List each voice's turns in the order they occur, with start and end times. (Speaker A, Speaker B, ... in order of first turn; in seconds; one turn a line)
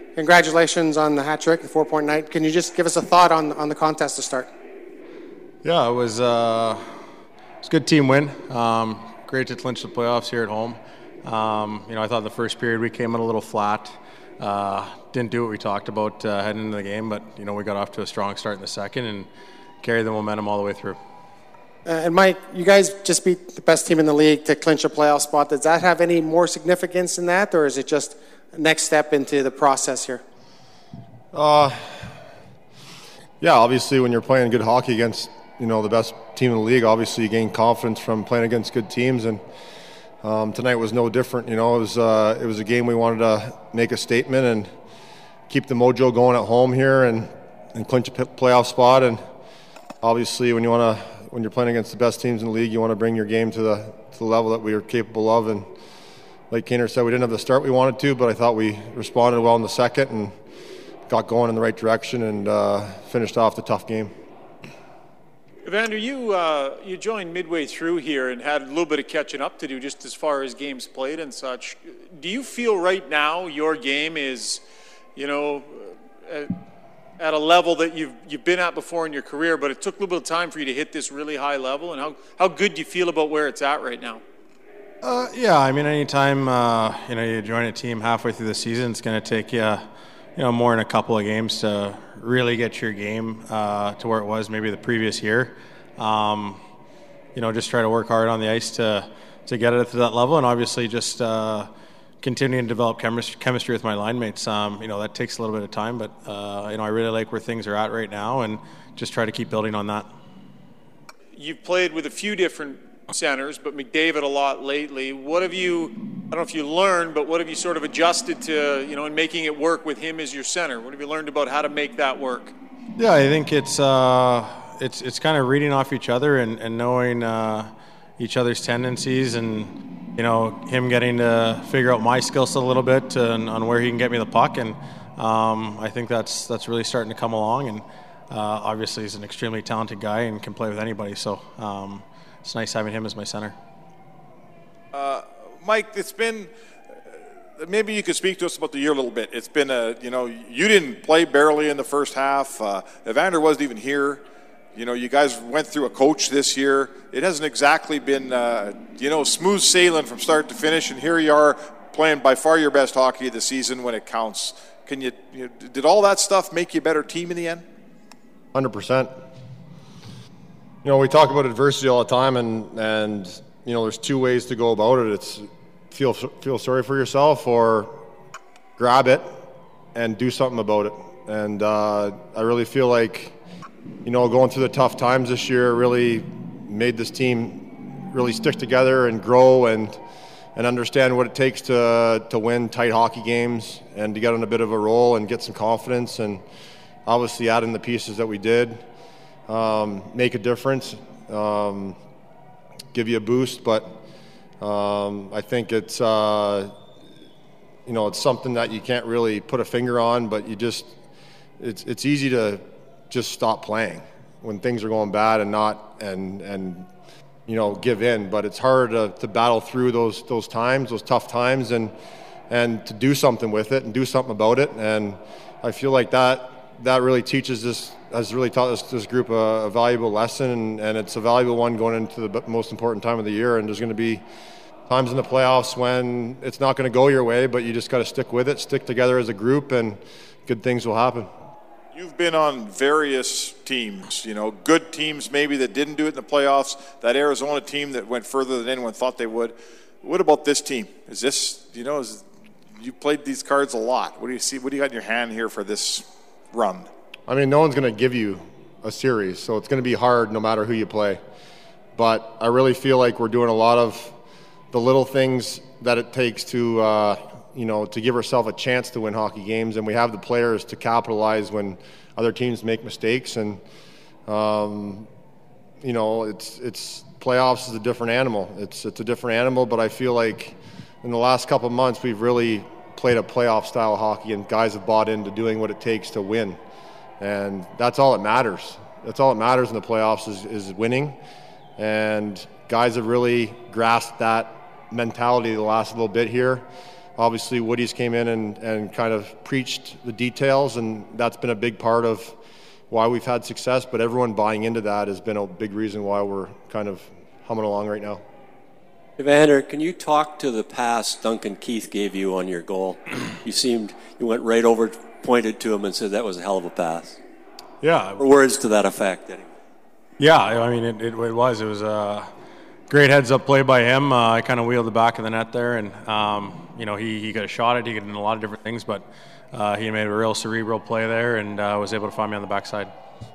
Speaker A: 0.2-4.5
Speaker B: 5.6-6.8
Speaker B: 7.6-19.3
Speaker B: 19.8-21.0
Speaker A: 21.8-30.2
Speaker C: 31.3-32.0
Speaker C: 33.4-39.4
Speaker C: 40.2-44.7
Speaker C: 45.5-49.2
Speaker C: 50.0-55.6
Speaker C: 56.5-60.3
Speaker C: 61.1-64.1
Speaker D: 65.6-74.6
Speaker D: 75.2-76.5
Speaker D: 77.2-84.2
Speaker B: 85.0-89.8
Speaker B: 90.3-96.6
Speaker B: 97.3-101.7
Speaker B: 102.2-110.1
Speaker D: 111.3-122.5
Speaker B: 123.0-143.6
Speaker E: 144.9-146.5
Speaker E: 147.6-154.2
Speaker E: 154.8-167.6
Speaker C: 168.5-169.1
Speaker C: 170.8-177.9
Speaker C: 178.8-179.3
Speaker C: 179.9-183.3
Speaker C: 184.0-190.0
Speaker C: 190.6-196.4
Speaker C: 197.1-198.8
Speaker C: 199.5-202.0
Speaker C: 202.9-204.0
Speaker C: 204.6-206.7
Speaker C: 207.9-210.9
Speaker C: 211.6-216.9
Speaker C: 217.5-221.9
Speaker C: 222.5-234.2
Speaker C: 234.9-241.3
Speaker E: 241.9-252.2
Speaker E: 252.8-256.9
Speaker C: 257.3-261.2
Speaker C: 261.9-264.1
Speaker C: 264.7-273.6
Speaker C: 274.3-275.1
Speaker C: 275.8-286.6
Speaker C: 287.2-291.2
Speaker C: 291.8-296.7
Speaker C: 297.2-302.4
Speaker C: 302.9-308.2
Speaker F: 309.2-317.2
Speaker B: 317.8-318.2
Speaker F: 318.2-319.5
Speaker B: 320.2-322.3
Speaker B: 322.9-332.9